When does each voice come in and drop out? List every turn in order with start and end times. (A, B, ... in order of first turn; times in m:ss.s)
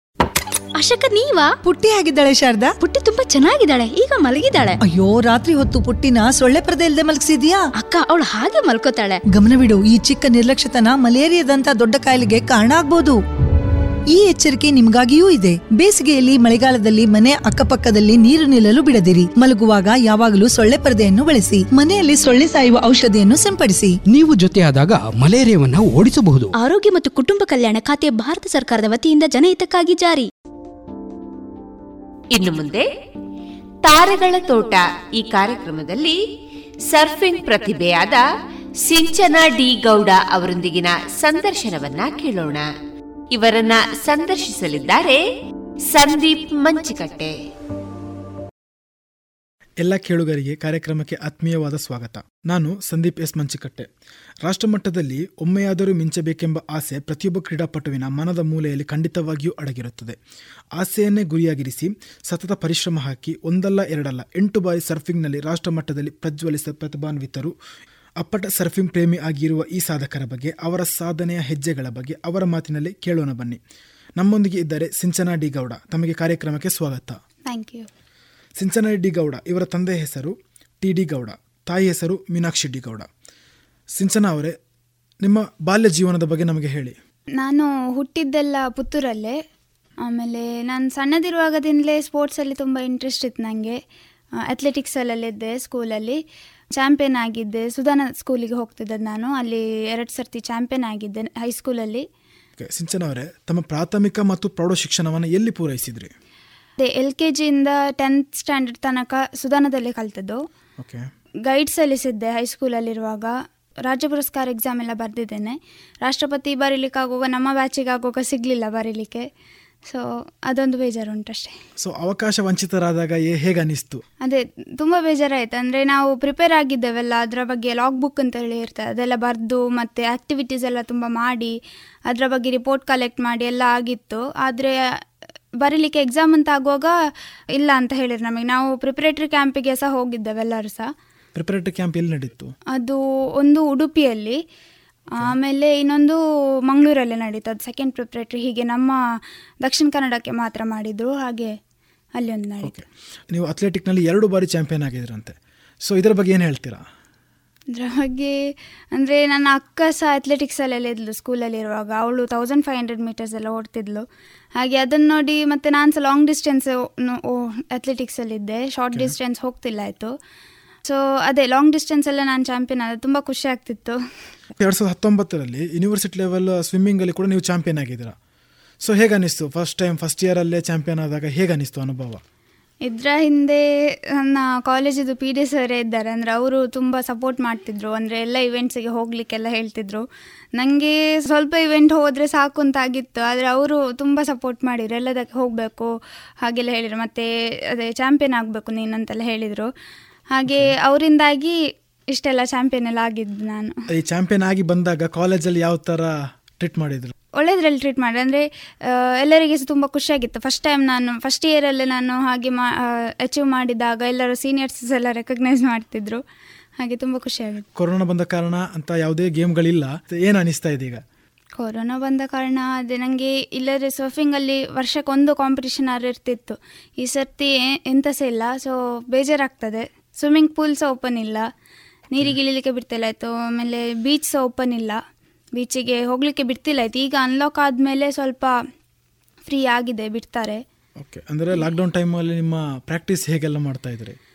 0:00.8-0:01.5 A
0:01.7-0:02.7 B
0:02.8-0:04.7 A
0:04.8-0:07.6 B
0:07.8-0:09.2 A
0:09.3-0:13.2 B
0:14.1-0:24.0 B
0:24.1-0:26.5 C
0:26.6-0:30.3 A
0:32.4-0:32.9 D
0:33.9-0:36.2 D
0:36.9-0:38.2 D
0:38.8-0:42.6 D
0:43.3-0:45.2 D
0:45.9-0:47.3 D
0:49.8-0:53.9 E
0:54.5-1:00.2 E
1:00.8-1:07.5 E
1:08.2-1:13.6 E
1:14.2-1:17.2 E
1:17.5-1:17.9 F
1:18.6-1:23.1 E
1:24.0-1:24.6 E
1:25.2-1:27.0 E
1:27.4-1:29.4 F
1:30.1-1:33.8 F
1:34.5-1:36.2 F
1:36.8-1:42.0 F
1:42.6-1:46.1 E
1:46.8-1:50.4 F
1:50.8-1:51.1 E
1:51.5-1:53.3 F
1:53.8-1:59.3 F
1:59.8-2:01.6 F
2:01.8-2:04.0 E
2:04.2-2:11.6 F
2:12.1-2:14.8 F
2:15.6-2:16.9 F
2:17.6-2:20.9 F
2:21.4-2:22.5 E
2:22.8-2:24.4 F
2:25.2-2:29.0 F
2:29.6-2:31.6 F
2:32.2-2:32.7 F
2:32.6-2:36.8 E
2:37.7-2:38.4 F
2:39.0-2:44.0 F
2:44.6-2:50.1 F
2:50.8-2:54.0 F
2:54.6-2:58.2 E
2:58.8-3:02.2 E
3:02.8-3:03.6 F
3:04.2-3:10.0 F
3:10.6-3:15.9 F
3:16.4-3:19.7 F
3:20.4-3:21.6 F
3:22.1-3:23.8 F
3:24.0-3:27.1 E
3:27.4-3:36.2 F
3:36.8-3:37.6 F
3:37.8-3:41.0 E
3:41.6-3:51.5 F
3:52.2-3:55.0 F
3:55.6-3:58.5 F
3:59.5-4:00.6 F
4:01.0-4:04.2 E